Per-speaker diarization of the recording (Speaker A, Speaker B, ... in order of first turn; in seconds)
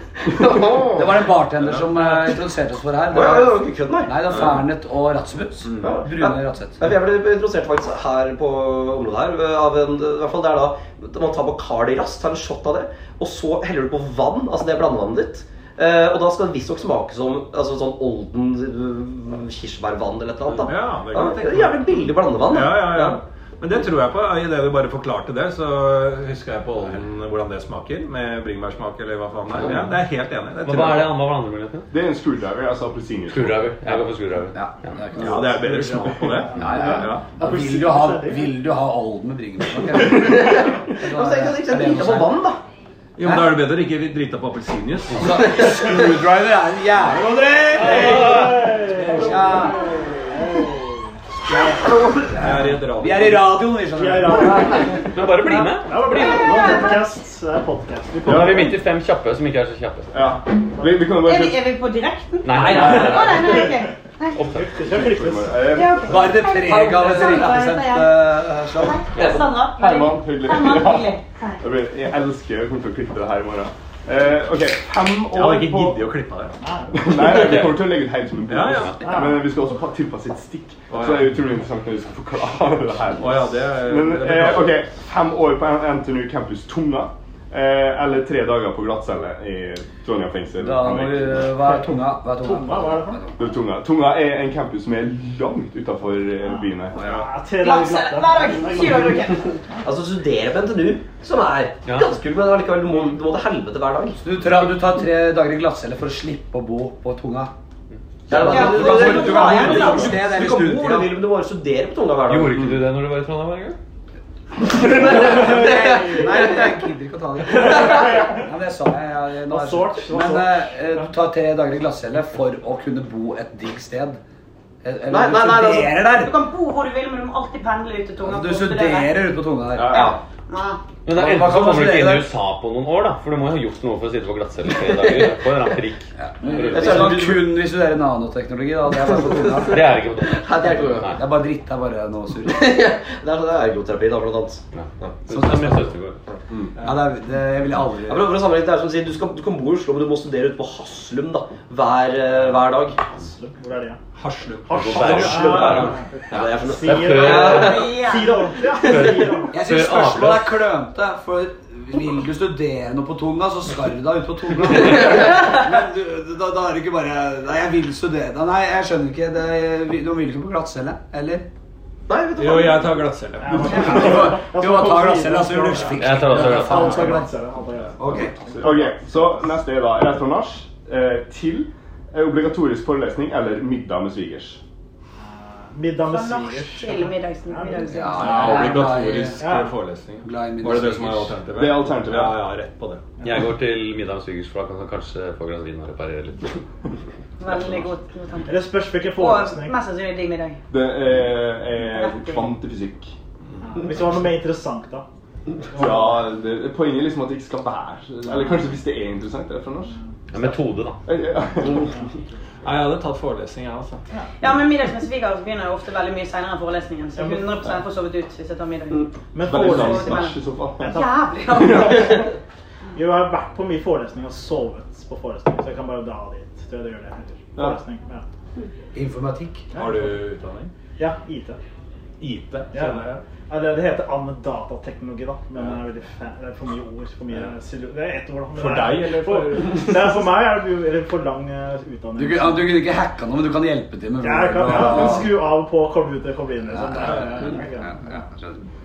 Speaker A: 0.3-1.1, 3.1-4.2, 5.8-23.2, 40.1-42.6, 51.8-52.5, 62.6-63.8, 69.2-69.7, 99.8-104.2, 108.3-112.8, 114.6-116.9, 117.7-118.0, 125.1-126.0, 129.9-130.2, 134.8-135.3, 136.7-137.5, 140.3-141.2, 142.5-145.2, 148.1-153.0, 155.4-158.1, 172.1-172.9
Speaker B: 0.9-6.9, 34.5-42.4, 43.2-43.6, 45.1-49.8, 51.5-54.7, 66.0-69.0, 90.6-93.4, 104.2-107.5, 108.3-111.2, 115.8-124.2, 124.8-126.4, 128.2-130.2, 131.2-132.3, 136.2-139.9, 140.7-142.7, 145.3-145.9, 146.8-148.3, 159.5-171.5, 173.7-177.3, 178.0-178.4, 187.9-189.4, 190.2-191.4, 228.9-229.7, 242.2-245.3, 246.7-248.6
Speaker C: 20.5-31.1, 35.2-37.3, 43.2-45.3, 52.4-53.5, 75.3-76.6, 77.2-77.9, 78.5-79.0, 80.9-81.3, 83.1-84.8, 97.0-97.2, 129.8-130.1, 154.2-156.5, 172.4-174.1, 188.2-193.0, 212.6-214.0, 229.8-230.7, 232.2-233.2, 238.6-240.3
Speaker D: 30.6-31.9, 33.3-34.6, 47.9-48.6, 55.0-56.0, 58.2-60.2, 62.4-63.5, 64.4-64.7, 109.1-109.7, 112.3-113.8, 131.1-137.1, 139.7-141.2, 144.7-146.2, 154.7-156.0, 156.7-157.8, 158.9-160.6, 176.0-177.0, 193.2-196.5, 210.3-211.0
Speaker E: 31.9-33.6, 58.3-58.5, 60.1-61.7, 64.9-66.1, 69.8-76.0, 77.0-91.5, 93.4-97.0, 178.5-184.6, 191.5-192.4, 200.7-203.2, 205.8-209.9, 211.1-211.9, 219.5-220.9
Speaker F: 36.6-38.5, 47.8-51.8, 54.0-55.2, 55.8-58.8, 60.8-61.0, 64.4-65.8, 76.6-77.2, 79.0-79.5, 91.5-93.2, 96.4-99.8, 115.0-116.3, 117.5-118.4, 119.5-121.0, 153.1-154.0, 154.7-159.7, 173.4-178.7, 185.2-187.8, 189.4-189.8, 198.5-199.8, 203.6-205.1, 205.7-206.2, 208.2-208.8, 209.9-210.6, 217.1-217.5, 219.3-220.0, 220.8-222.2, 222.9-228.2, 229.7-230.1, 231.0-231.6, 232.7-242.8, 244.2-248.2
Speaker G: 56.1-57.1, 61.0-64.4, 65.7-71.7, 97.5-99.6, 108.3-110.3, 126.2-129.2, 129.8-130.8, 157.4-158.5, 186.0-188.6, 197.4-200.6, 201.8-202.6, 214.4-222.2